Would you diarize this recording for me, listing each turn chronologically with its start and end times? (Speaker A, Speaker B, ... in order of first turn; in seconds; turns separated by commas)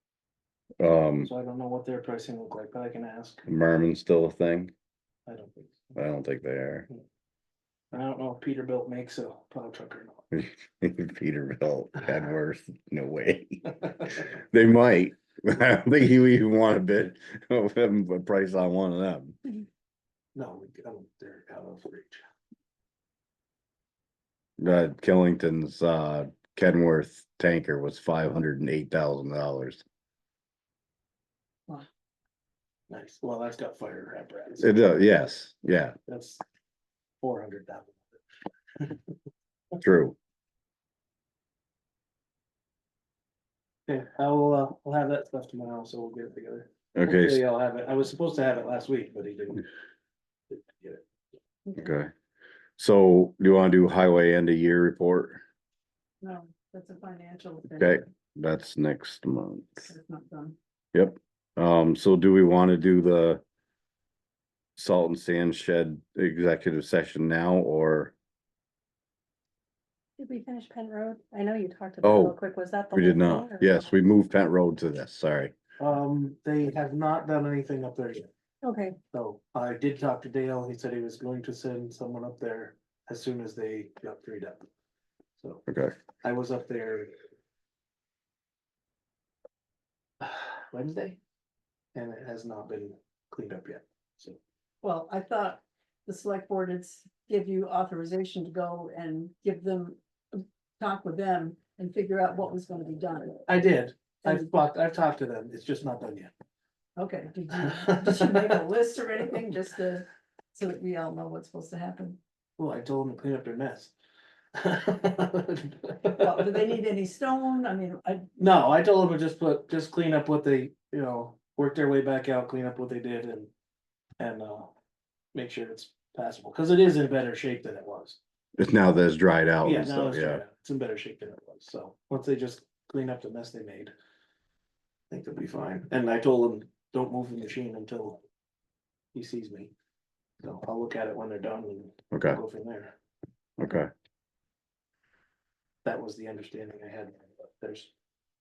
Speaker A: 0.8-1.3, Speaker B: 1.2-3.5, Speaker A: 3.5-4.7, Speaker B: 5.3-5.9, Speaker A: 6.0-6.9, Speaker B: 7.9-10.3, Speaker A: 10.3-19.4, Speaker B: 20.4-22.2, Speaker A: 24.6-29.8, Speaker B: 32.9-34.7, Speaker A: 34.6-36.0, Speaker B: 36.1-36.4, Speaker B: 37.2-38.1, Speaker B: 38.8-39.1, Speaker A: 39.8-40.2, Speaker B: 43.9-49.6, Speaker A: 47.0-47.4, Speaker B: 50.5-51.0, Speaker A: 51.8-52.1, Speaker A: 52.8-55.4, Speaker C: 56.2-58.0, Speaker A: 57.8-59.9, Speaker C: 59.9-60.6, Speaker A: 60.9-63.4, Speaker A: 64.8-68.1, Speaker D: 70.2-73.9, Speaker A: 72.0-72.4, Speaker A: 72.9-75.5, Speaker B: 75.8-78.3, Speaker D: 78.6-79.0, Speaker B: 79.1-84.7, Speaker B: 85.4-85.7, Speaker B: 86.2-87.1, Speaker B: 90.2-91.2, Speaker B: 92.0-94.4, Speaker C: 94.8-103.5, Speaker B: 103.5-106.3, Speaker C: 104.2-104.5, Speaker C: 107.0-112.2, Speaker B: 107.7-108.6, Speaker B: 112.6-113.9, Speaker B: 114.6-116.6, Speaker C: 116.1-118.3, Speaker B: 118.4-123.5, Speaker B: 124.2-124.7, Speaker B: 125.3-128.2, Speaker A: 128.6-130.4, Speaker B: 129.6-133.9, Speaker B: 135.1-138.2, Speaker B: 139.1-139.7, Speaker B: 140.4-142.9, Speaker A: 142.1-142.4, Speaker A: 143.6-143.9, Speaker B: 145.8-147.9